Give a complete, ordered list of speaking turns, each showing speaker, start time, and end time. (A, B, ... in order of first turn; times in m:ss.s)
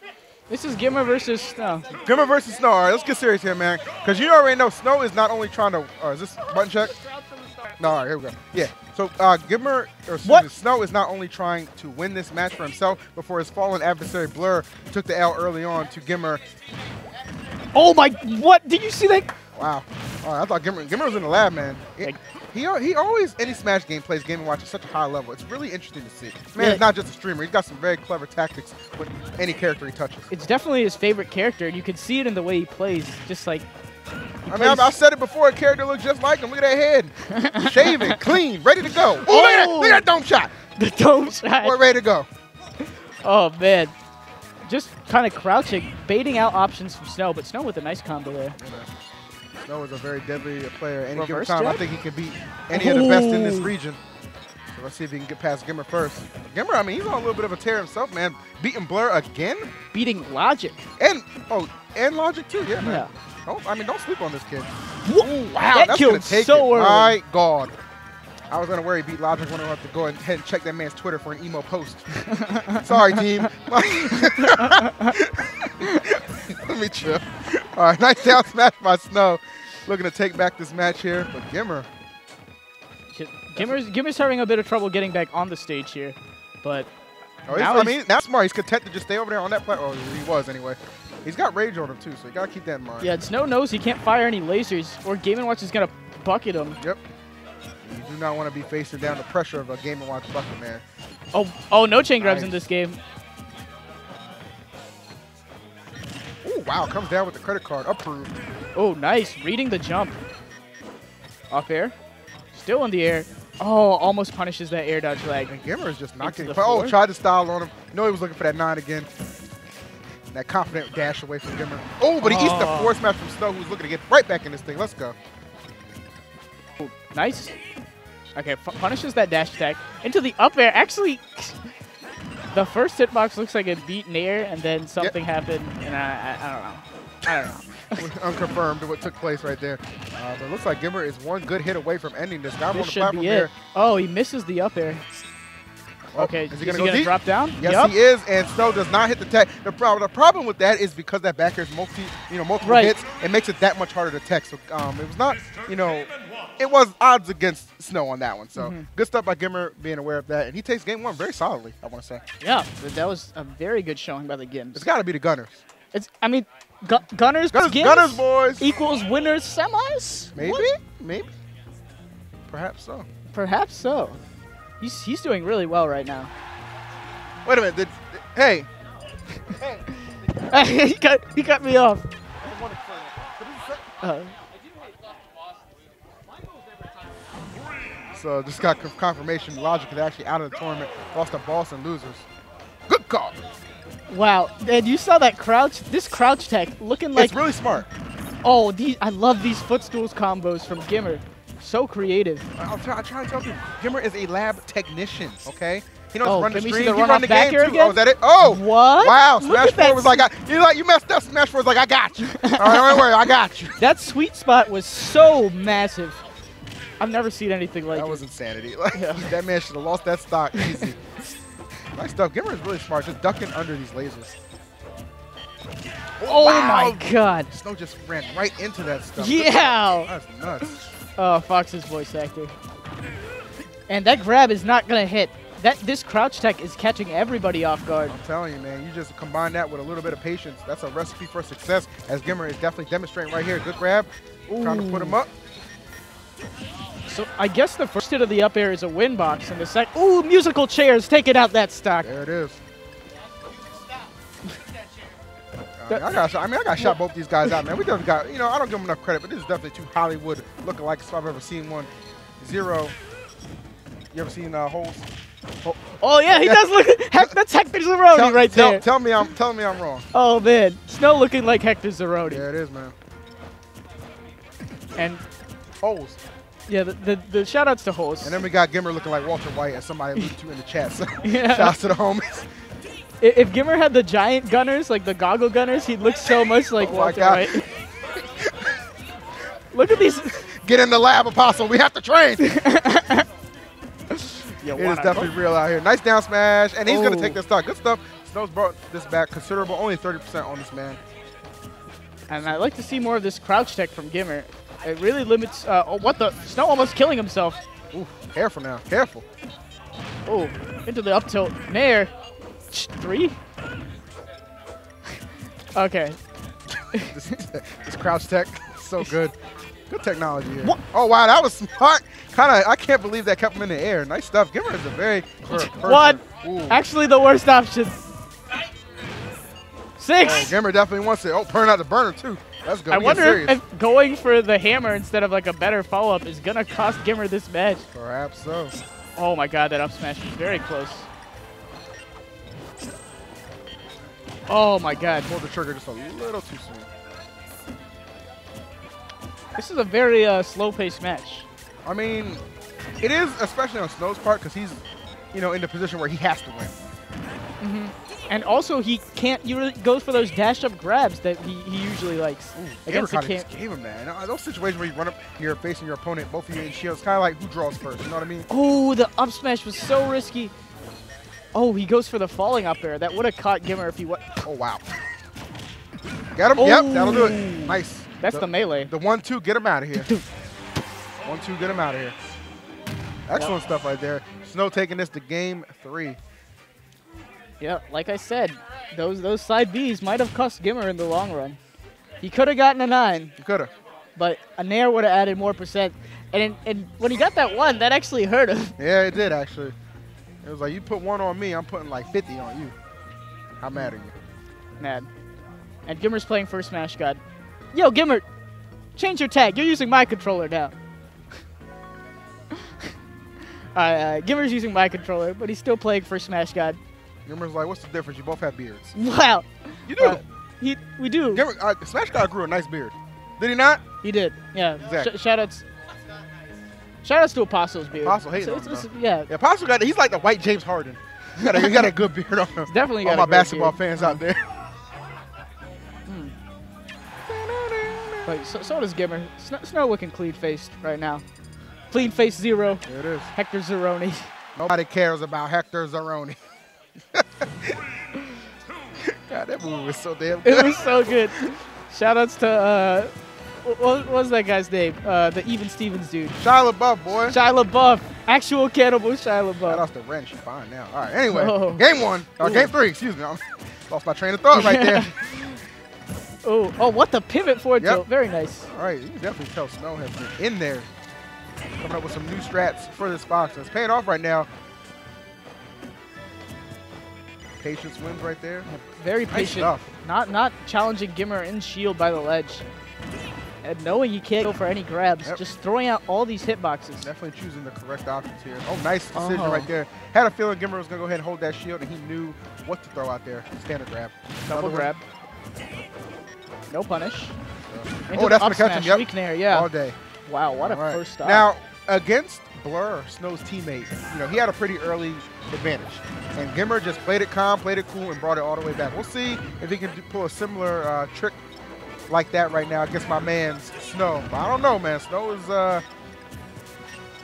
0:00.5-0:01.9 A
0:01.9-0:07.0 B
0:07.8-0:16.4 B
0:17.7-0:19.3 A
0:19.5-0:30.3 B
0:26.6-0:26.8 A
0:30.3-0:33.7 A
0:34.5-0:34.9 A
0:34.5-0:40.5 B
0:37.3-0:38.2 A
0:39.1-0:40.0 A
0:40.8-0:41.8 A
0:41.5-0:42.3 B
0:43.2-0:43.9 A
0:44.6-0:48.6 A
0:48.6-0:48.9 B
0:49.6-0:54.0 B
0:51.1-0:51.8 A
0:52.7-0:53.7 A
0:54.7-0:59.7 B
0:59.9-1:00.8 A
1:01.0-1:07.7 B
1:02.8-1:03.1 A
1:05.0-1:07.2 A
1:08.5-1:12.1 B
1:12.2-1:13.3 A
1:12.8-1:21.9 B
1:14.1-1:15.1 A
1:15.8-1:16.0 A
1:23.1-1:26.9 A
1:27.5-1:33.1 B
1:27.5-1:28.0 A
1:33.0-1:36.8 A
1:37.8-1:40.8 B
1:41.3-1:43.0 A
1:42.2-1:42.6 B
1:46.4-1:48.4 B
1:48.7-1:50.2 A
1:51.5-1:51.9 A
1:52.5-1:55.5 A
1:55.5-1:59.1 B
1:56.2-1:57.0 A
2:00.3-2:05.2 B
2:02.2-2:03.0 A
2:06.8-2:07.5 A
2:08.3-2:11.6 A
2:12.5-2:18.0 A
2:18.0-2:23.5 B
2:22.7-2:25.0 A
2:26.1-2:42.2 B
2:26.2-2:27.9 A
2:32.6-2:33.0 A
2:38.5-2:38.8 A
2:42.4-2:44.8 A
2:44.7-2:45.6 B
2:45.9-2:50.7 A
2:47.5-2:48.7 B
2:50.3-2:51.3 B
2:52.5-2:53.1 B
2:53.3-2:54.2 A
2:54.8-2:56.3 A
2:57.4-2:58.7 B
3:00.5-3:02.0 A
3:02.4-3:03.6 B
3:04.0-3:04.3 A
3:08.1-3:12.2 B
3:12.9-3:13.4 B
3:14.1-3:17.4 A
3:17.2-3:17.9 B
3:18.4-3:22.4 A
3:22.6-3:33.8 B
3:26.2-3:30.2 A
3:32.3-3:33.0 A
3:33.8-3:36.2 A
3:37.0-3:38.2 A
3:37.9-3:41.0 B
3:38.9-3:39.4 A
3:40.6-3:40.9 A
3:41.9-3:44.4 B
3:46.2-3:50.7 B
3:46.2-3:47.5 A
3:49.2-3:50.1 A
3:51.2-3:52.5 A
3:53.9-3:58.1 A
3:58.1-4:05.3 B
4:04.5-4:05.2 A
4:07.1-4:12.1 A
4:12.0-4:12.6 B
4:15.8-4:21.9 B
4:16.8-4:17.6 A
4:22.4-4:23.0 B
4:24.1-4:25.1 B
4:25.6-4:28.8 A
4:26.3-4:26.6 B
4:28.1-4:30.0 B
4:30.1-4:32.4 A
4:32.3-4:32.9 B
4:35.0-4:35.2 A
4:35.8-4:36.2 B
4:36.7-4:38.4 A
4:38.2-4:42.5 B
4:41.2-4:41.8 A
4:43.2-4:47.6 A
4:46.8-4:47.7 B
4:48.2-4:48.7 B
4:49.7-4:50.4 A
4:50.3-4:52.5 B
4:52.4-4:53.2 A
4:54.1-4:55.3 A
4:54.7-5:01.0 B
4:56.8-4:57.4 A
5:02.3-5:07.6 A
5:07.9-5:09.2 B
5:10.2-5:12.1 A
5:12.7-5:13.4 A
5:15.7-5:16.2 A
5:16.9-5:17.4 A
5:17.1-5:19.4 B
5:19.9-5:26.8 B
5:25.5-5:28.0 A
5:30.0-5:30.6 A
5:30.2-5:33.6 B
5:32.9-5:37.8 A
5:37.9-5:38.8 B
5:39.2-5:41.1 A
5:44.5-5:45.3 A
5:45.2-5:46.9 B
5:49.6-5:51.5 A
5:51.8-5:52.4 B
5:53.0-5:56.8 B
5:57.6-6:03.5 A
6:02.6-6:08.5 B
6:08.5-6:10.5 A
6:11.5-6:14.2 A
6:14.4-6:14.8 B
6:16.4-6:20.1 B
6:16.6-6:18.9 A
6:20.0-6:20.2 A
6:21.2-6:22.2 B
6:23.3-6:26.2 B
6:27.6-6:31.6 A
6:32.2-6:33.3 A
6:33.4-6:33.7 B
6:34.2-6:38.8 A
6:38.8-6:39.8 B
6:40.4-6:42.7 B
6:43.6-6:44.1 B
6:44.8-6:45.1 A
6:45.9-6:47.2 A
6:47.7-6:48.2 A
6:49.0-6:50.7 A
6:53.7-6:56.8 A
6:57.2-6:58.9 B
6:58.9-7:01.4 A
6:59.9-7:00.2 B
7:01.3-7:03.8 B
7:04.0-7:05.6 A
7:04.8-7:05.1 B
7:07.0-7:09.3 A
7:07.9-7:14.4 B
7:11.4-7:11.9 A
7:12.7-7:14.2 A
7:16.1-7:16.3 A
7:17.3-7:18.3 B
7:18.2-7:21.2 A
7:21.9-7:24.3 A
7:22.8-7:23.3 B
7:24.6-7:26.4 B
7:27.1-7:27.8 B
7:29.1-7:31.1 B
7:30.4-7:33.1 A
7:33.6-7:36.4 A
7:36.4-7:37.4 B
7:37.1-7:39.8 A
7:39.6-7:45.1 B
7:41.3-7:41.8 A
7:42.4-7:42.7 A
7:44.5-7:45.5 A
7:46.4-7:48.7 A
7:48.7-7:50.9 B
7:51.8-7:54.5 B
7:57.6-7:58.7 B
7:58.7-8:02.6 A
7:59.3-7:59.8 B
8:03.6-8:07.1 A
8:07.0-8:14.9 B
8:09.1-8:09.7 A
8:14.5-8:15.0 A
8:16.7-8:17.4 A
8:17.7-8:20.0 B
8:18.1-8:19.7 A
8:20.2-8:21.5 A
8:20.5-8:31.4 B
8:32.1-8:35.8 B